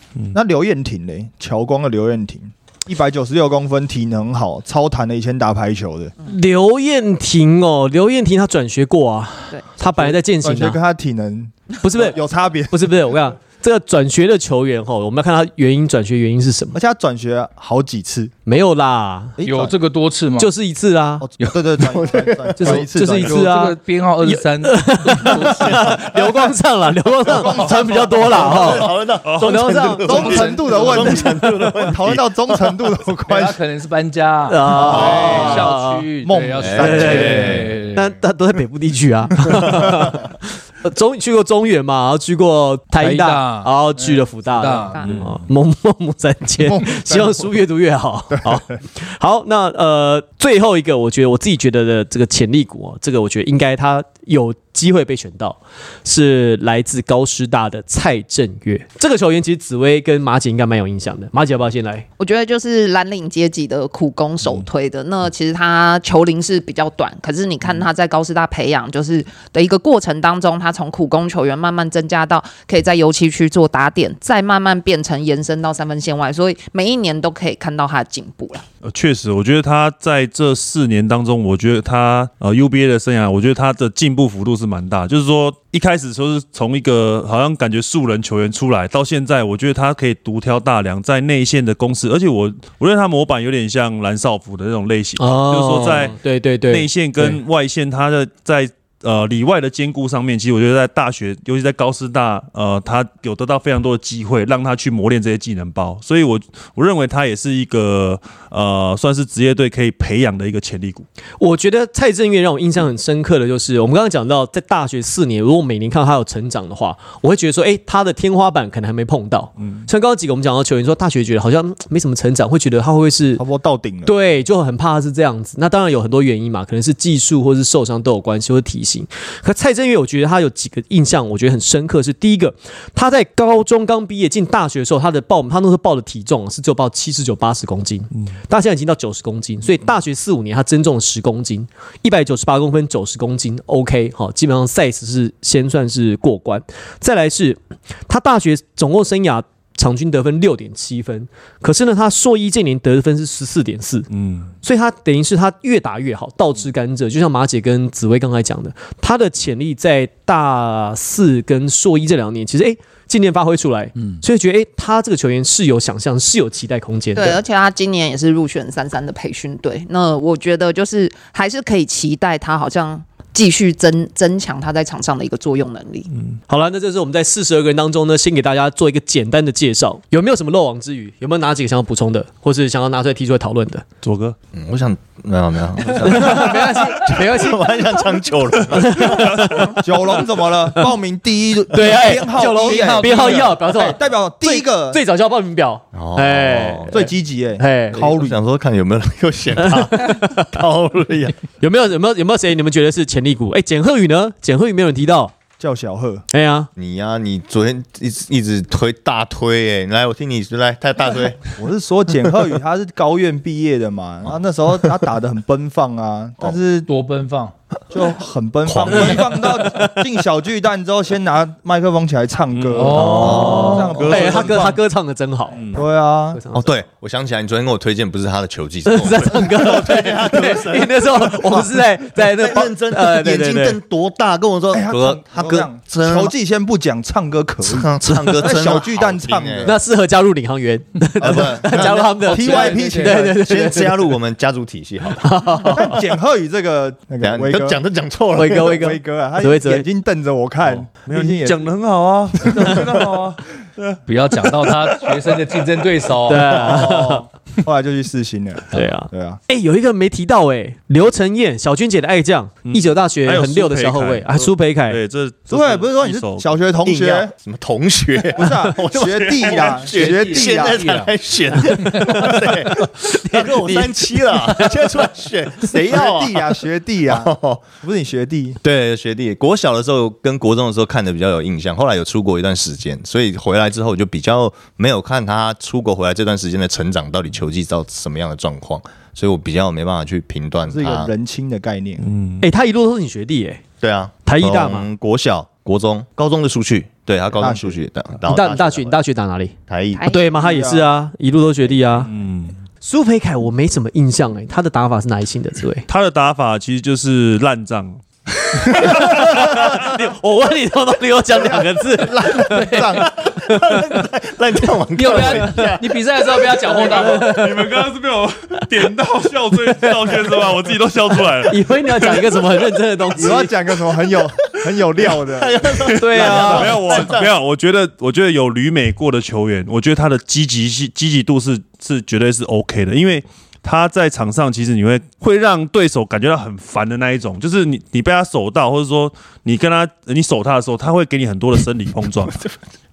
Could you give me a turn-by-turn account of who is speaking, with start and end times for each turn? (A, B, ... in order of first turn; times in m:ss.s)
0:00.3-0:06.2 A
0:06.2-0:10.8 B
0:09.9-0:12.9 A
0:11.8-0:12.2 B
0:12.7-0:16.8 B
0:16.7-0:18.3 A
0:18.5-0:19.4 B
0:19.4-0:19.7 A
0:19.4-0:20.5 C
0:20.4-0:21.3 B
0:21.2-0:23.5 A
0:21.8-0:22.9 D
0:22.6-0:31.3 B
0:23.2-0:26.0 C
0:27.3-0:28.9 A
0:27.5-0:32.9 D
0:29.2-0:29.6 E
0:30.0-0:33.6 A
0:33.3-0:38.1 C
0:34.5-0:36.1 B
0:34.7-0:35.7 A
0:34.9-0:35.6 D
0:36.2-0:37.7 A
0:36.6-0:37.4 D
0:36.7-1:02.1 B
0:43.0-0:45.0 C
0:44.9-0:45.3 F
0:46.7-0:47.5 A
1:02.2-1:18.7 F
1:18.8-1:36.2 E
1:35.2-1:37.4 B
1:36.7-1:51.1 E
1:51.4-2:03.4 B
1:59.6-1:59.9 E
2:03.4-2:04.1 A
2:04.1-2:34.1 B
2:34.1-2:34.5 E
2:34.6-2:47.4 B
2:47.1-2:56.1 F
2:56.5-3:03.8 B
3:04.0-3:04.4 E
3:04.5-3:09.8 D
3:05.9-3:08.0 B
3:08.6-3:09.8 E
3:08.8-3:09.7 B
3:09.8-3:15.0 A
3:11.7-3:18.1 B
3:12.6-3:13.6 C
3:15.9-3:17.1 D
3:16.9-3:18.4 A
3:18.0-3:21.4 D
3:19.6-3:20.5 B
3:21.6-3:25.3 B
3:25.6-3:26.2 A
3:26.3-3:26.7 B
3:26.8-3:31.4 D
3:31.6-3:36.9 A
3:36.9-3:37.5 C
3:37.9-3:44.8 A
3:38.6-3:39.4 D
3:42.5-3:43.0 E
3:42.7-3:43.9 C
3:43.0-3:44.1 D
3:43.1-3:45.7 B
3:44.0-3:44.5 E
3:45.6-3:45.8 E
3:45.7-3:46.4 A
3:46.4-3:46.7 B
3:46.5-3:56.3 D
3:48.9-3:53.8 B
3:54.7-3:59.8 A
3:57.6-3:59.8 D
3:59.6-4:04.2 B
4:01.2-4:02.1 D
4:01.2-4:03.4 A
4:02.3-4:03.2 C
4:03.2-4:06.0 D
4:05.1-4:05.9 B
4:05.7-4:07.8 A
4:07.2-4:09.0 D
4:08.4-4:09.8 B
4:08.7-4:11.6 A
4:10.6-4:14.8 E
4:12.4-4:13.2 A
4:14.1-4:16.8 C
4:16.2-4:17.3 B
4:16.5-4:19.4 A
4:18.7-4:25.0 B
4:22.7-4:26.5 E
4:25.5-4:27.3 A
4:26.8-4:37.6 D
4:28.4-4:30.9 A
4:29.6-4:30.5 E
4:30.6-4:31.1 C
4:31.8-4:35.1 B
4:35.7-4:38.6 A
4:38.6-4:51.1 D
4:50.7-4:52.1 A
4:52.0-4:52.4 E
4:52.4-4:53.6 B
4:53.8-4:59.0 D
4:54.2-4:54.9 B
4:57.4-4:57.8 A
4:58.3-5:02.1 B
4:59.7-5:00.2 D
5:00.4-5:00.9 A
5:02.1-5:02.6 E
5:02.8-5:05.9 B
5:05.9-5:08.0 E
5:08.5-5:09.8 E
5:08.7-5:14.0 B
5:11.5-5:13.1 A
5:13.1-5:15.9 D
5:15.0-5:17.3 C
5:15.0-5:15.8 B
5:16.6-5:17.7 B
5:16.8-5:22.6 E
5:21.5-5:23.5 B
5:23.2-5:26.8 A
5:25.1-5:27.2 D
5:25.8-5:27.1 B
5:25.9-5:42.5 E